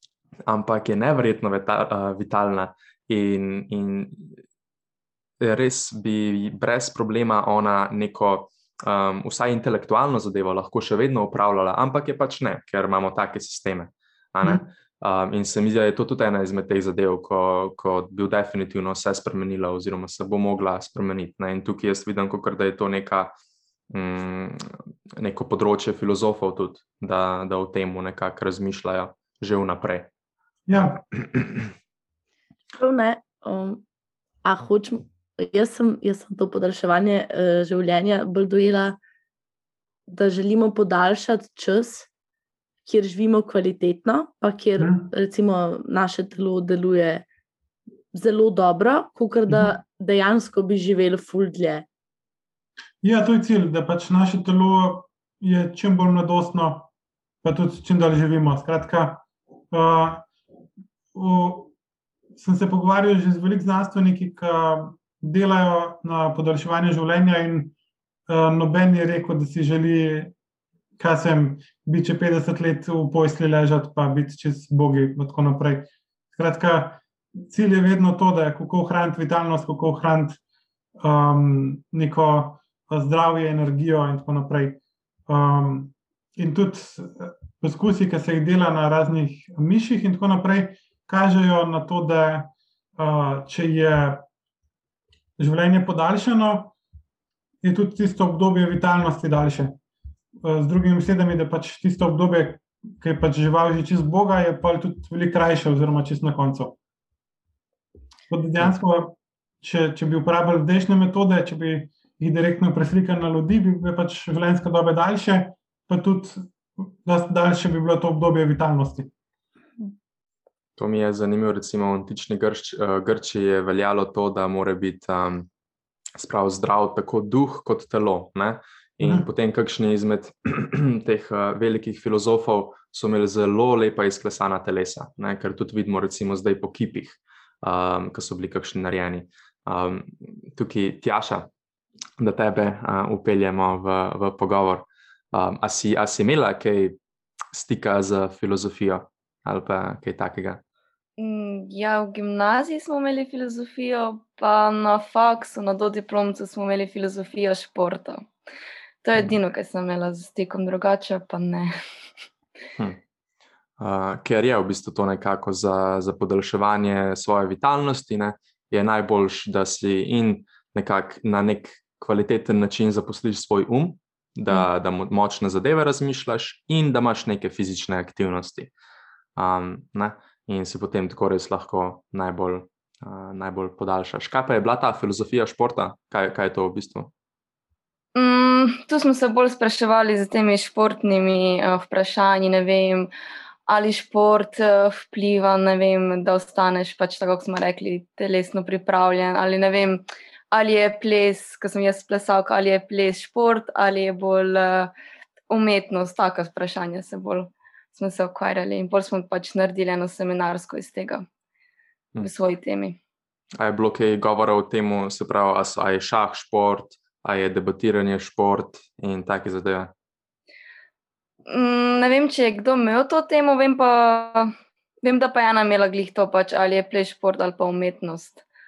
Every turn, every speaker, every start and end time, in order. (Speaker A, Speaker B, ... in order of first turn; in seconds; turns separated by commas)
Speaker A: 0.5-4.4, Speaker A: 5.4-23.3, Speaker A: 23.9-30.1, Speaker B: 30.7-31.0, Speaker A: 30.7-31.7, Speaker C: 32.7-33.8, Speaker C: 34.4-39.0, Speaker C: 40.1-42.1, Speaker C: 42.9-47.2, Speaker B: 44.8-45.1, Speaker C: 48.1-51.9, Speaker B: 49.5-49.7, Speaker B: 53.0-56.9, Speaker B: 57.4-60.2, Speaker B: 61.1-61.7, Speaker B: 62.3-67.7, Speaker B: 68.3-70.3, Speaker B: 71.0-80.4, Speaker B: 81.0-94.2, Speaker B: 95.4-96.7, Speaker B: 97.6-99.8, Speaker B: 100.4-106.8, Speaker B: 108.3-119.1, Speaker A: 120.8-125.5, Speaker A: 126.2-141.5, Speaker A: 142.2-147.0, Speaker A: 147.5-150.6, Speaker D: 151.2-158.3, Speaker D: 159.0-161.7, Speaker A: 163.8-178.7, Speaker A: 179.4-187.1, Speaker D: 188.1-193.1, Speaker D: 193.7-204.9, Speaker D: 205.5-211.2, Speaker D: 212.2-213.0, Speaker A: 213.6-219.9, Speaker D: 221.5-224.5, Speaker D: 225.0-228.4